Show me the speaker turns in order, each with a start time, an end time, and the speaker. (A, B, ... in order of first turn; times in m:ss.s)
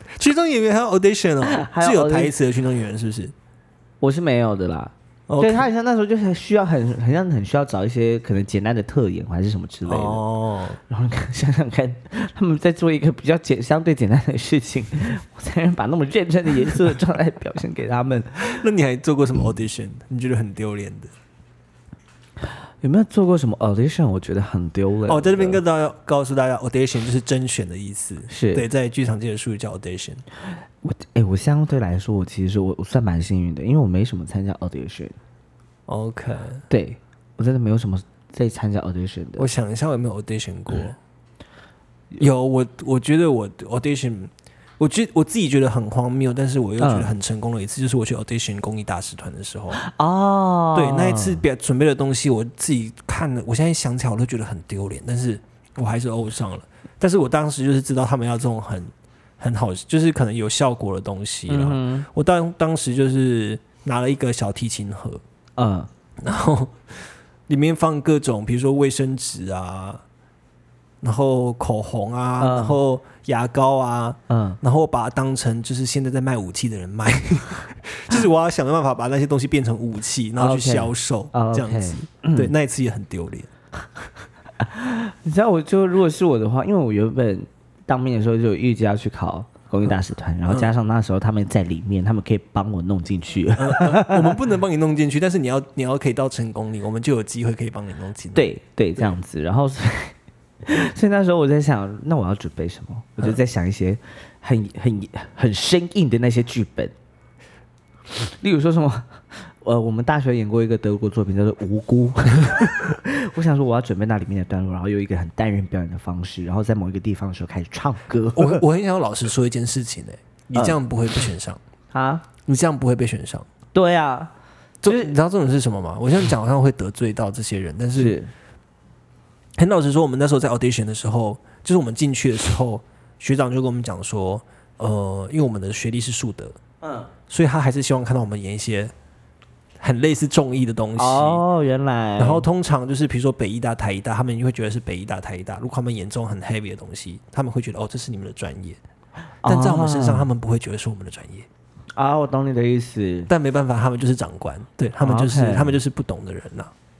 0:00.1-0:03.3 A
0:01.5-0:02.3 B
0:04.0-0:10.2 B
0:05.3-0:05.7 A
0:09.9-0:10.8 A
0:10.9-0:18.6 B
0:18.5-0:21.1 A
0:22.8-0:25.6 B
0:25.1-0:30.2 A
0:28.3-0:28.6 B
0:30.8-0:35.2 B
0:35.9-0:36.6 A
0:36.7-0:39.5 B
0:39.4-0:41.0 A
0:42.2-0:49.8 A
0:46.8-0:47.1 B
0:49.8-0:51.4 B
0:50.7-1:05.2 A
1:01.5-1:02.1 B
1:05.6-1:05.9 B
1:06.2-1:10.0 A
1:11.0-1:23.5 A
1:12.4-1:12.8 B
1:14.3-1:14.6 B
1:20.4-1:22.5 B
1:24.6-1:34.3 B
1:33.6-1:38.5 A
1:38.3-1:46.9 B
1:48.4-1:58.6 B
1:58.4-2:01.6 A
2:01.9-2:02.2 B
2:02.4-2:03.5 A
2:03.7-2:04.3 B
2:04.8-2:08.1 A
2:04.8-2:05.1 B
2:08.0-2:08.3 B
2:09.6-2:16.6 A
2:17.3-2:18.9 A
2:19.8-2:21.4 A
2:21.0-2:22.4 B
2:22.2-2:28.8 A
2:29.4-2:30.3 B
2:29.4-2:31.5 A
2:31.9-2:33.3 B
2:33.3-2:36.7 A
2:35.0-2:35.8 B